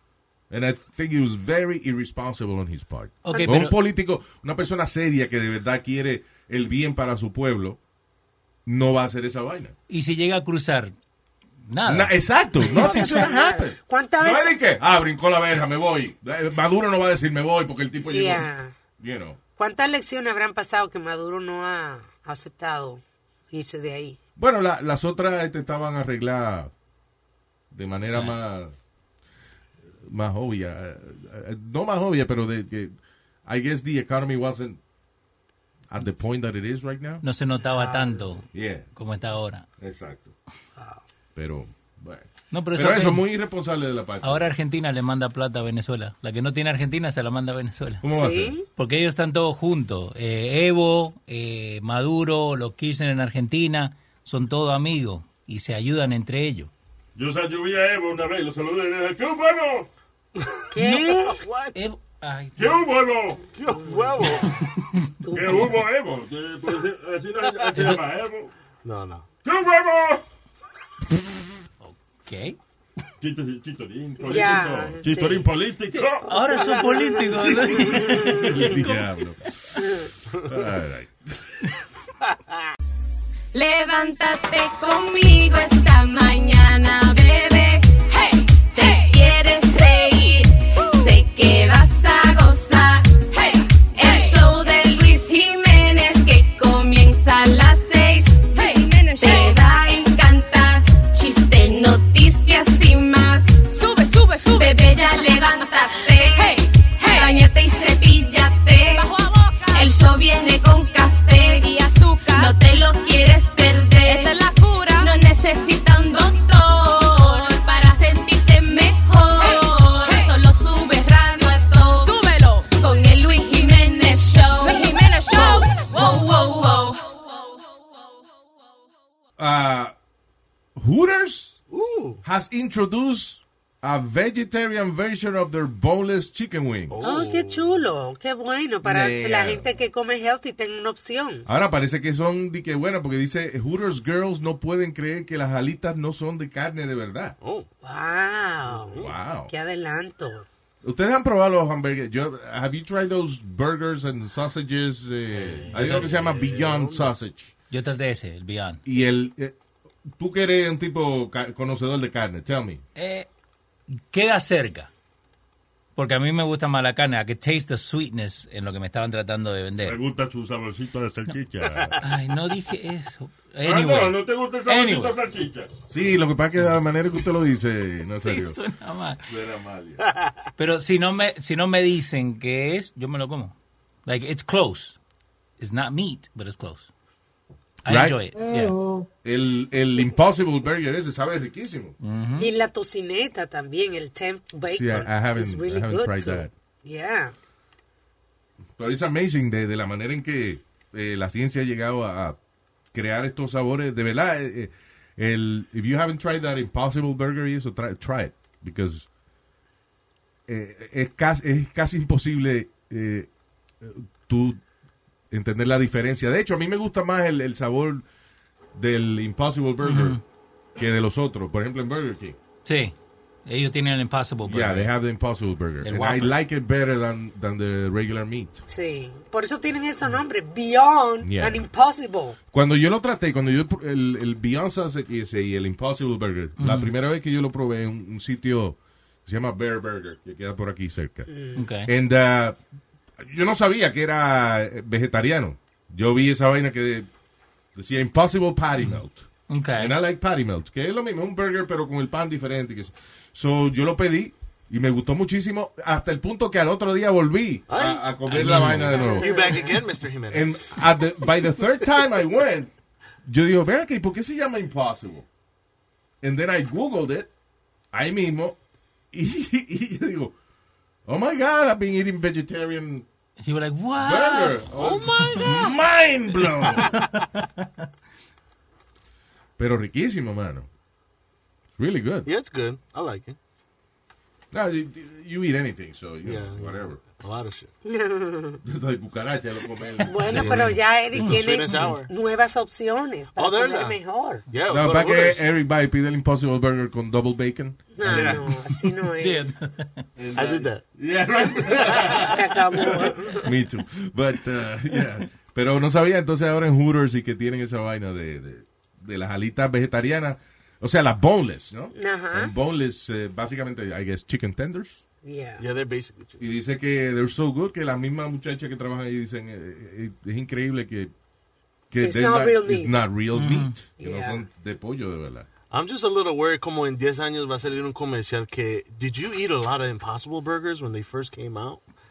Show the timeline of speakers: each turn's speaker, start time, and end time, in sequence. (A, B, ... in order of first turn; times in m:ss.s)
0:00.5-0:07.8 A
0:03.2-0:03.8 B
0:08.7-0:09.7 A
0:09.9-0:10.9 B
0:11.7-0:12.1 B
0:11.9-0:19.4 A
0:12.7-0:14.6 C
0:12.7-0:13.2 B
0:18.1-0:18.7 C
0:19.6-0:24.2 C
0:24.4-0:26.7 A
0:27.7-0:28.7 A
0:28.1-0:28.4 B
0:30.0-0:33.0 A
0:33.5-0:34.8 A
0:35.9-0:37.2 A
0:37.2-0:39.7 B
0:37.7-0:38.4 C
0:38.5-0:38.9 A
0:39.8-0:40.3 A
0:40.8-0:41.0 C
0:41.4-0:44.5 A
0:42.5-0:43.2 B
0:44.2-0:48.0 B
0:48.0-0:48.6 A
0:48.1-0:48.6 C
0:48.8-0:56.7 B
0:57.2-0:59.9 D
1:00.7-1:01.4 C
1:00.8-1:01.1 B
1:01.3-1:01.8 E
1:01.7-1:02.8 B
1:02.6-1:03.4 D
1:03.5-1:04.6 E
1:03.8-1:04.3 C
1:05.2-1:05.7 C
1:05.3-1:08.5 D
1:07.8-1:08.0 B
1:08.8-1:09.3 E
1:09.4-1:10.2 D
1:11.8-1:12.6 B
1:13.2-1:16.8 D
1:14.2-1:15.5 C
1:16.2-1:19.1 B
1:17.4-1:18.8 D
1:18.1-1:18.4 C
1:18.6-1:19.4 A
1:19.8-1:20.1 C
1:20.4-1:21.6 A
1:23.5-2:07.2 F
2:09.4-2:09.9 A
2:10.8-2:11.6 A
2:11.7-2:12.2 E
2:12.2-2:17.2 A
2:16.9-2:17.8 E
2:17.0-2:21.5 C
2:18.8-2:19.6 A
2:21.5-2:27.4 A
2:27.4-2:27.7 E
2:27.8-2:30.5 C
2:28.7-2:29.1 E
2:29.0-2:29.5 A
2:30.8-2:37.5 A
2:35.3-2:37.1 E
2:35.7-2:36.1 B
2:37.7-2:38.8 B
2:38.9-2:39.6 A
2:40.2-2:42.8 A
2:43.0-2:43.3 B
2:44.0-2:44.9 B
2:46.0-2:50.0 B
2:49.8-2:52.0 D
2:52.0-2:55.2 B
2:53.6-2:55.7 D
2:55.9-2:58.6 A
2:58.2-2:59.2 B
2:59.3-3:00.0 A
3:00.6-3:03.6 B
3:04.1-3:05.0 B
3:05.6-3:06.9 B
3:07.8-3:08.8 B
3:07.9-3:08.2 A
3:09.2-3:12.0 A
3:12.0-3:12.5 B
3:12.4-3:17.3 C
3:14.7-3:16.5 A
3:18.8-3:22.4 A
3:22.9-3:29.1 A
3:30.5-3:33.3 A
3:33.8-3:34.6 A
3:35.3-3:38.0 A
3:38.8-3:40.2 A
3:39.8-3:40.2 B
3:40.8-3:42.4 A
3:42.6-3:43.0 B
3:43.5-3:44.9 B
3:44.4-3:48.6 A
3:45.8-3:46.4 B
3:48.7-3:52.4 C
3:51.2-3:51.6 A
3:52.5-4:01.3 A
3:56.6-3:56.9 B
4:01.3-4:01.6 C
4:01.6-4:01.9 B
4:01.9-4:02.6 A
4:03.2-4:07.1 A
4:07.8-4:19.4 A
4:09.5-4:10.0 B
4:17.7-4:20.5 E
4:18.3-4:19.0 B
4:18.9-4:19.8 C
4:20.3-4:22.7 A
4:23.2-4:25.3 A
4:26.2-4:27.3 A
4:27.9-4:28.6 A
4:29.1-4:30.4 A
4:31.1-4:33.1 A
4:33.4-4:34.7 B
4:34.0-4:37.0 A
4:34.8-4:35.8 E
4:36.8-4:37.5 B
4:39.6-4:40.7 A
4:41.8-4:42.3 A
4:42.3-4:43.4 E
4:44.5-4:47.0 A
4:46.2-4:47.7 E
4:47.8-4:48.6 C
4:48.6-4:50.8 A
4:50.1-4:54.4 C
4:50.3-4:50.7 B
4:51.1-4:52.1 E
4:53.4-4:54.0 E
4:54.5-4:55.4 E
4:54.7-4:58.4 A
4:57.9-4:59.4 C
4:58.0-4:58.4 E
4:59.2-5:00.1 B
5:00.2-5:15.0 A
5:00.3-5:00.8 E
5:01.6-5:02.3 E
5:02.0-5:03.5 C
5:12.0-5:12.5 C
5:15.2-5:15.6 C
5:15.6-5:16.4 E
5:16.4-5:21.1 A
5:21.9-5:25.5 A
5:22.0-5:22.9 C
5:23.3-5:23.7 B
5:24.0-5:24.4 C
5:25.7-5:31.8 E